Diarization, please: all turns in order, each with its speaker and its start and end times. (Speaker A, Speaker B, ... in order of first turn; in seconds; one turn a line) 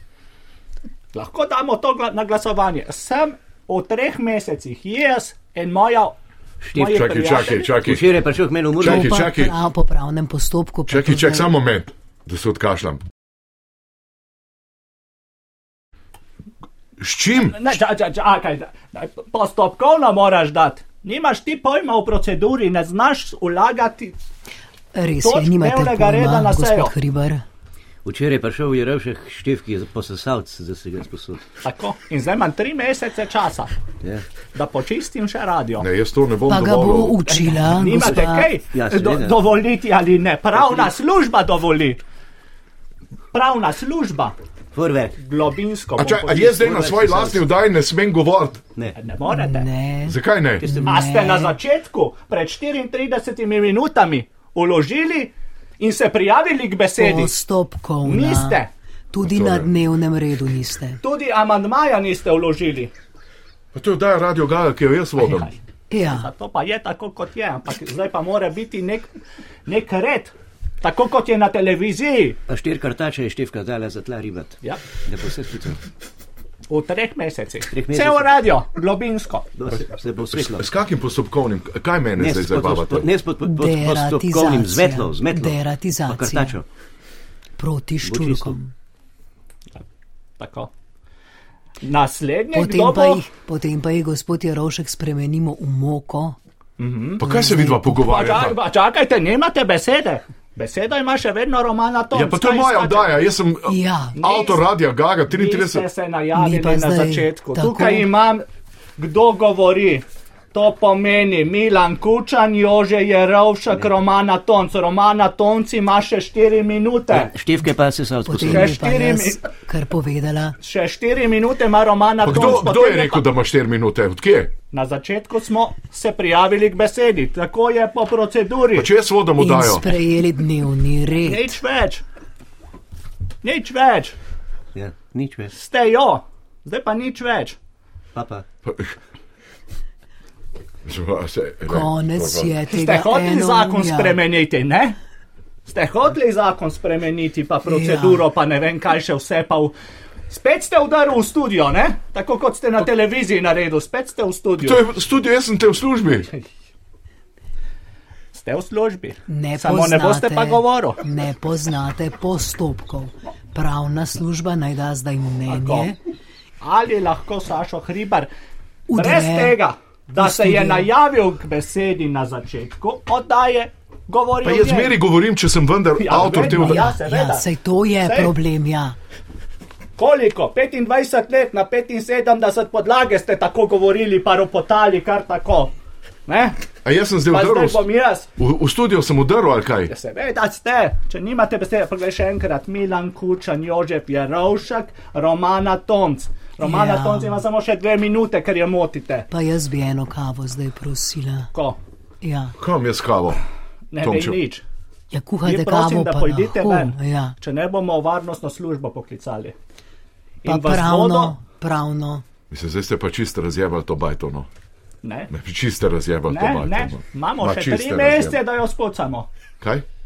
Speaker A: 1.1-6.2
Speaker B: 6.7-7.0
Speaker A: 6.7-7.7
Speaker C: 6.8-8.2
Speaker B: 7.8-9.3
Speaker C: 8.8-9.6
Speaker D: 8.8-11.5
Speaker C: 10.9-13.0
Speaker C: 17.0-17.6
Speaker A: 17.4-24.2
Speaker D: 24.9-27.4
Speaker A: 25.2-26.9
Speaker B: 28.0-31.4
Speaker A: 31.6-33.7
Speaker A: 34.5-35.9
Speaker C: 35.8-37.3
Speaker D: 36.5-38.5
Speaker A: 37.6-42.0
Speaker B: 37.9-39.5
Speaker A: 43.3-44.4
Speaker B: 44.7-45.1
Speaker A: 45.2-46.8
Speaker C: 46.0-48.6
Speaker B: 46.5-47.5
Speaker A: 49.0-49.7
Speaker D: 49.3-51.5
Speaker C: 50.0-50.6
Speaker B: 50.6-51.0
Speaker A: 50.7-57.4
Speaker D: 57.0-58.6
Speaker A: 58.0-58.7
Speaker D: 59.1-61.0
Speaker C: 59.3-59.7
Speaker A: 61.0-62.9
Speaker C: 63.7-65.5
Speaker A: 65.2-69.1
Speaker D: 65.9-66.3
Speaker A: 69.7-72.4
Speaker B: 72.5-75.8
Speaker A: 76.7-79.5
Speaker B: 77.7-78.3
Speaker B: 79.5-80.7
Speaker C: 80.3-83.1
Speaker B: 82.2-86.6
Speaker D: 83.4-86.6
Speaker D: 87.6-88.7
Speaker B: 88.0-88.6
Speaker A: 90.4-90.7
Speaker A: 91.8-93.3
Speaker D: 92.5-96.3
Speaker A: 96.8-103.3
Speaker C: 97.2-98.6
Speaker D: 97.2-98.0
Speaker C: 102.1-105.8
Speaker D: 103.7-104.2
Speaker A: 104.2-104.6
Speaker A: 105.3-108.5
Speaker D: 106.3-108.1
Speaker A: 109.0-117.3
Speaker B: 117.1-118.8
Speaker D: 118.3-120.5
Speaker A: 118.4-119.4
Speaker A: 120.6-123.2
Speaker C: 122.2-124.5
Speaker A: 124.7-128.9
Speaker C: 128.7-129.9
Speaker D: 129.4-131.5
Speaker A: 131.2-132.0
Speaker A: 133.4-134.2
Speaker B: 134.7-135.5
Speaker A: 135.5-137.6
Speaker B: 138.1-138.4
Speaker C: 138.6-138.9
Speaker C: 140.8-142.5
Speaker D: 141.7-144.2
Speaker A: 142.7-145.0
Speaker A: 145.7-149.8
Speaker D: 147.7-148.3
Speaker A: 150.3-154.8
Speaker C: 154.6-156.3
Speaker A: 158.3-161.0
Speaker D: 159.3-166.0
Speaker A: 165.4-165.9
Speaker A: 166.6-168.3
Speaker D: 168.9-169.6
Speaker A: 168.9-175.0
Speaker D: 170.2-170.9
Speaker C: 174.4-176.8
Speaker A: 176.0-178.3
Speaker D: 176.4-178.9
Speaker A: 180.0-185.7
Speaker A: 186.2-186.6
Speaker C: 186.8-187.8
Speaker A: 187.3-188.3
Speaker C: 188.4-189.9
Speaker A: 189.9-199.3
Speaker D: 196.6-197.4
Speaker D: 199.3-201.5
Speaker A: 201.5-201.8
Speaker D: 202.2-202.5
Speaker C: 202.6-203.4
Speaker A: 203.9-204.6
Speaker C: 204.0-204.4
Speaker D: 205.1-207.3
Speaker A: 205.4-209.6
Speaker A: 210.4-211.4
Speaker D: 210.4-212.2
Speaker C: 212.5-214.5
Speaker A: 215.0-215.3
Speaker C: 215.3-218.4
Speaker A: 216.3-219.3
Speaker C: 219.6-219.8